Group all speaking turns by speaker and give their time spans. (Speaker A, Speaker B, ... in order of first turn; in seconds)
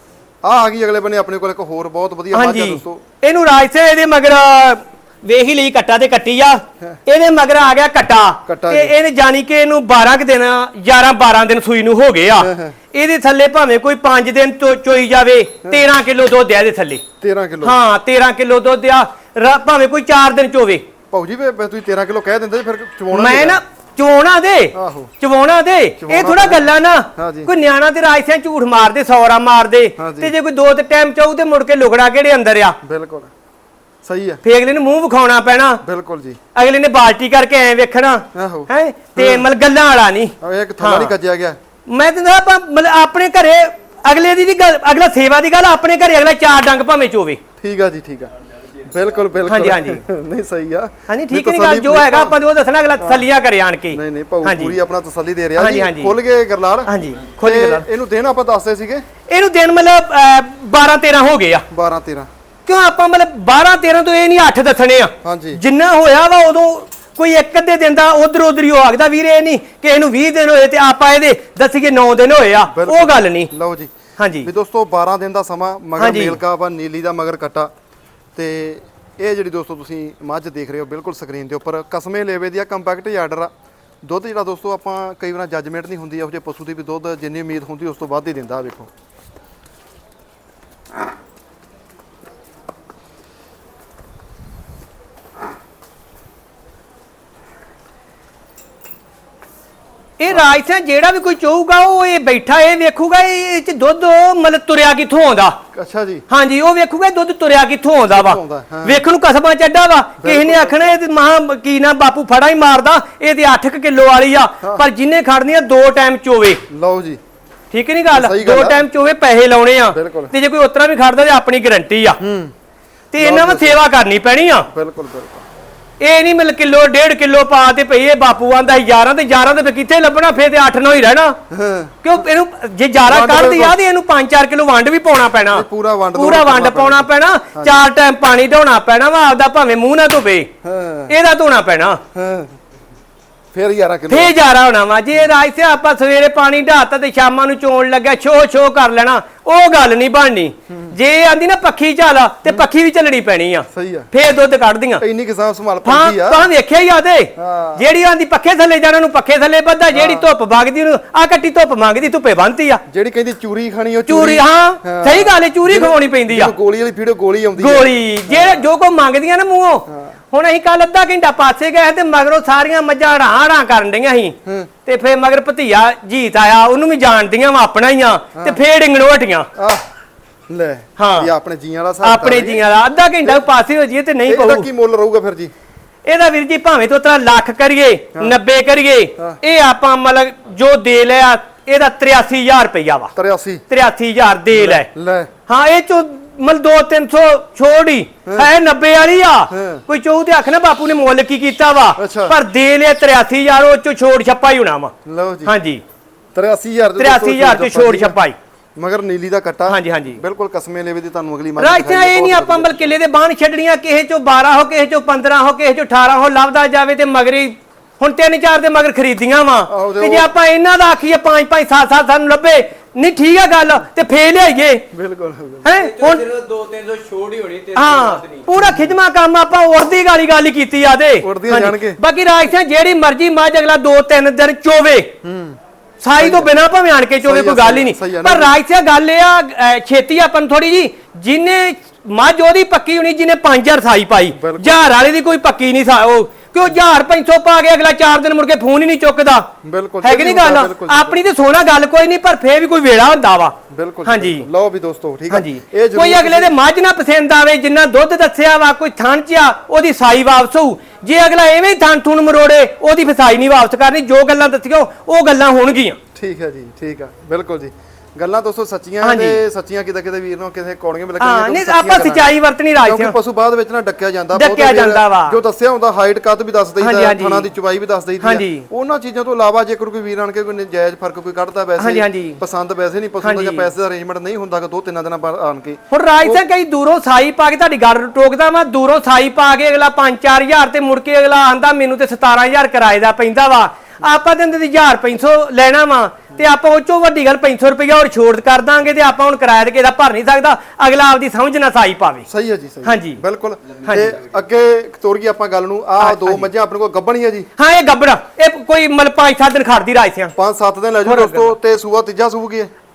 Speaker A: 0.4-3.0, 8.4-8.9, 12.4-12.8, 17.2-17.8, 21.1-23.6, 24.7-25.1, 26.0-26.6, 27.1-27.5, 30.0-30.3, 32.8-33.3, 34.0-34.4, 35.8-36.4, 38.3-39.5, 40.4-41.6, 47.6-52.4, 53.0-53.2, 53.9-59.0, 61.7-62.3, 65.2-65.6, 72.7-77.7, 78.3-83.5, 84.0-88.9, 105.7-106.2, 108.1-109.0, 110.2-110.8, 114.6-114.9, 116.7-117.2, 118.1-118.8, 119.9-120.3, 122.2-122.5, 123.2-123.8, 124.7-125.5, 131.5-132.0, 133.0-133.8, 135.5-137.8, 140.6-141.1, 142.1-142.5, 143.5-144.3, 153.7-154.1, 155.0-156.5, 157.3-157.8, 159.9-160.3, 162.9-168.7, 169.9-170.2, 178.3-178.6, 179.5-179.8, 180.5-182.6, 183.2-183.5, 184.2-185.5, 193.1-193.6, 194.5-195.3, 198.2-198.5, 199.5-199.8, 202.0-202.4, 205.0-205.5, 206.3-208.2, 208.8-212.8, 219.7-220.3, 224.9-225.7, 228.5-228.9, 231.2-232.0, 235.2-235.6, 236.2-236.5, 237.2-238.5, 244.3-244.9, 249.6-251.2, 253.7-256.5, 266.1-286.4, 302.3-307.5, 310.4-312.7
Speaker B: 2.3-17.0, 17.6-20.8, 23.1-32.8, 34.4-35.8, 36.5-41.1, 41.9-47.4, 49.5-50.0, 51.1-54.8, 55.6-56.1, 56.9-57.8, 59.3-61.6, 62.7-73.5, 74.2-74.5, 76.0-76.4, 100.2-105.6, 106.3-116.6, 117.7-122.2, 123.1-124.7, 126.0-131.4, 132.0-140.5, 141.1-142.0, 144.1-155.0, 155.8-162.8, 164.1-166.5, 167.6-179.5, 181.0-181.3, 182.0-184.7, 186.1-193.1, 193.7-194.9, 195.5-204.9, 205.4-205.8, 207.0-208.3, 209.7-210.2, 211.6-224.8, 225.6-226.2, 227.8-235.1, 236.0-249.5, 250.0-254.5, 255.3-266.0, 269.0-269.4, 271.2-273.1, 274.3-275.4, 276.8-277.5, 278.2-278.7, 281.8-282.4, 283.2-283.7, 285.9-302.3, 302.8-303.2, 303.9-304.1, 306.0-306.5, 307.6-310.3, 311.0-311.5
Speaker C: 225.7-228.5, 303.6-304.3